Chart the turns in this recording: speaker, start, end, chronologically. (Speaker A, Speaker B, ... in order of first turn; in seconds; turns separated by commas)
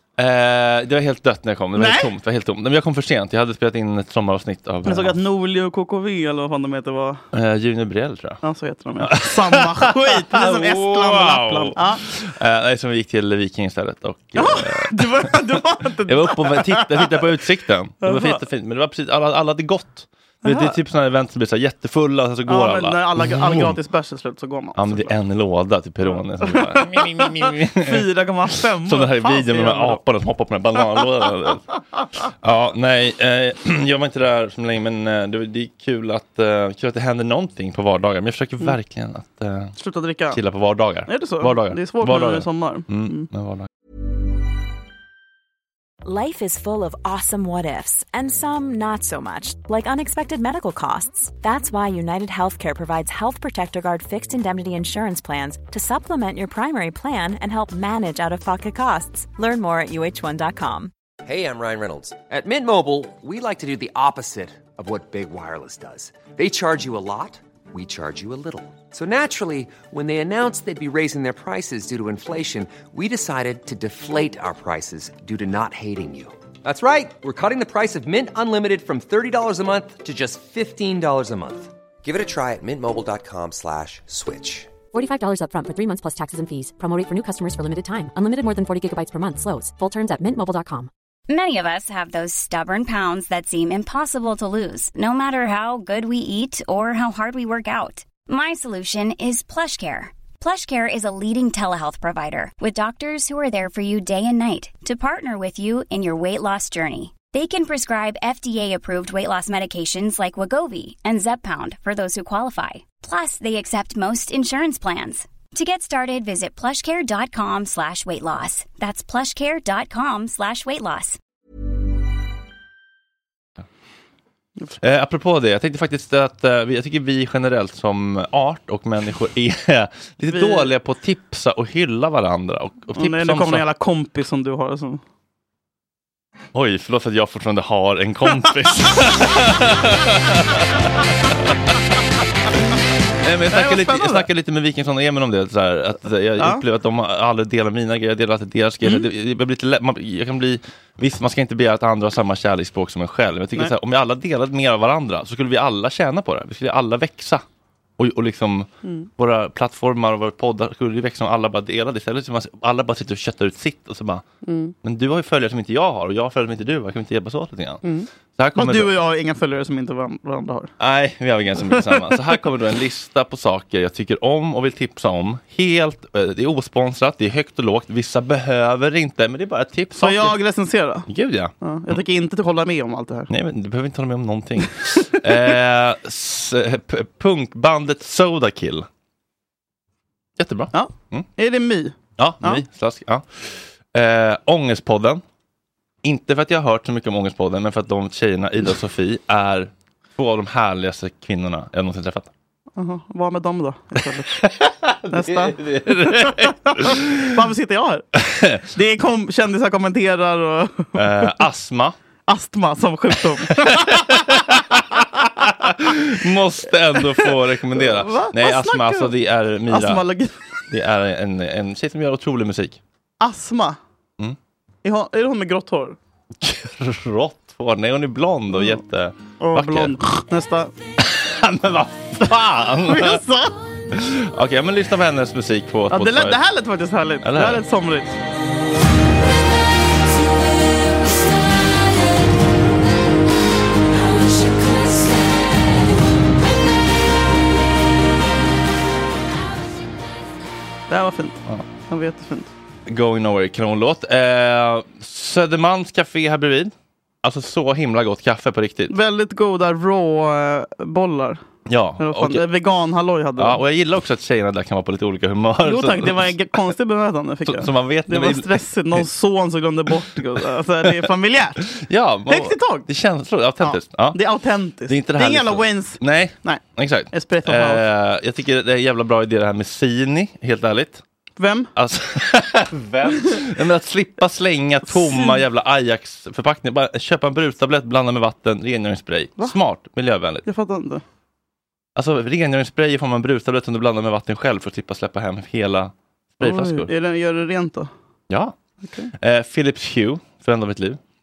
Speaker A: 0.2-5.2, Speaker B: 1.8-2.1, Speaker B: 4.8-7.2, Speaker A: 7.3-8.4, Speaker B: 8.4-12.0, Speaker A: 9.0-15.5, Speaker B: 14.3-17.2, Speaker A: 16.1-23.8, Speaker B: 18.0-18.4, Speaker B: 20.4-20.7, Speaker B: 22.5-25.1, Speaker A: 24.8-28.1, Speaker B: 26.0-30.0, Speaker A: 28.8-31.6, Speaker A: 32.4-39.7, Speaker B: 39.8-40.4, Speaker A: 40.3-43.7, Speaker B: 41.1-43.3, Speaker C: 46.0-60.9, Speaker D: 61.2-84.7, Speaker E: 84.9-90.9, Speaker F: 91.3-121.2, Speaker A: 124.8-133.6, Speaker B: 130.3-130.7, Speaker B: 133.0-135.0, Speaker A: 136.5-140.8, Speaker A: 143.2-157.4, Speaker B: 143.5-144.2, Speaker B: 146.4-146.6, Speaker A: 158.0-164.2, Speaker B: 164.4-164.7, Speaker A: 164.8-167.8, Speaker B: 167.8-170.7, Speaker A: 168.4-168.9, Speaker A: 170.8-180.3, Speaker B: 171.7-172.0, Speaker B: 180.0-181.1, Speaker A: 181.1-182.0, Speaker B: 181.6-183.3, Speaker A: 183.3-188.8, Speaker A: 190.4-191.3, Speaker B: 190.7-192.6, Speaker A: 192.2-193.2, Speaker A: 193.9-195.2, Speaker A: 196.0-202.3, Speaker B: 202.8-204.3, Speaker A: 204.4-207.3, Speaker B: 205.1-208.0, Speaker A: 208.2-208.6, Speaker B: 208.7-211.0, Speaker A: 210.9-211.9, Speaker B: 212.3-214.2, Speaker A: 213.7-215.0, Speaker A: 215.6-220.0, Speaker B: 217.7-219.1, Speaker B: 219.7-220.3, Speaker A: 220.7-222.8, Speaker B: 223.2-223.8, Speaker B: 224.8-226.0, Speaker A: 226.4-229.9, Speaker B: 229.4-230.7, Speaker A: 231.0-233.2, Speaker B: 232.8-233.5, Speaker A: 233.9-236.4, Speaker B: 235.9-238.1, Speaker A: 237.2-237.6, Speaker B: 250.9-252.5, Speaker A: 252.9-258.9, Speaker B: 258.9-261.4, Speaker A: 261.7-262.4, Speaker B: 262.0-263.6, Speaker A: 263.4-266.3, Speaker B: 265.6-271.6, Speaker A: 267.4-269.1, Speaker A: 271.7-274.2, Speaker B: 272.3-272.8, Speaker B: 273.6-277.8, Speaker A: 274.9-281.0, Speaker B: 281.4-281.7, Speaker A: 281.8-290.4, Speaker B: 283.1-283.3, Speaker B: 284.9-285.4, Speaker B: 290.4-291.0, Speaker A: 291.9-296.9, Speaker B: 296.4-297.9, Speaker A: 299.2-301.0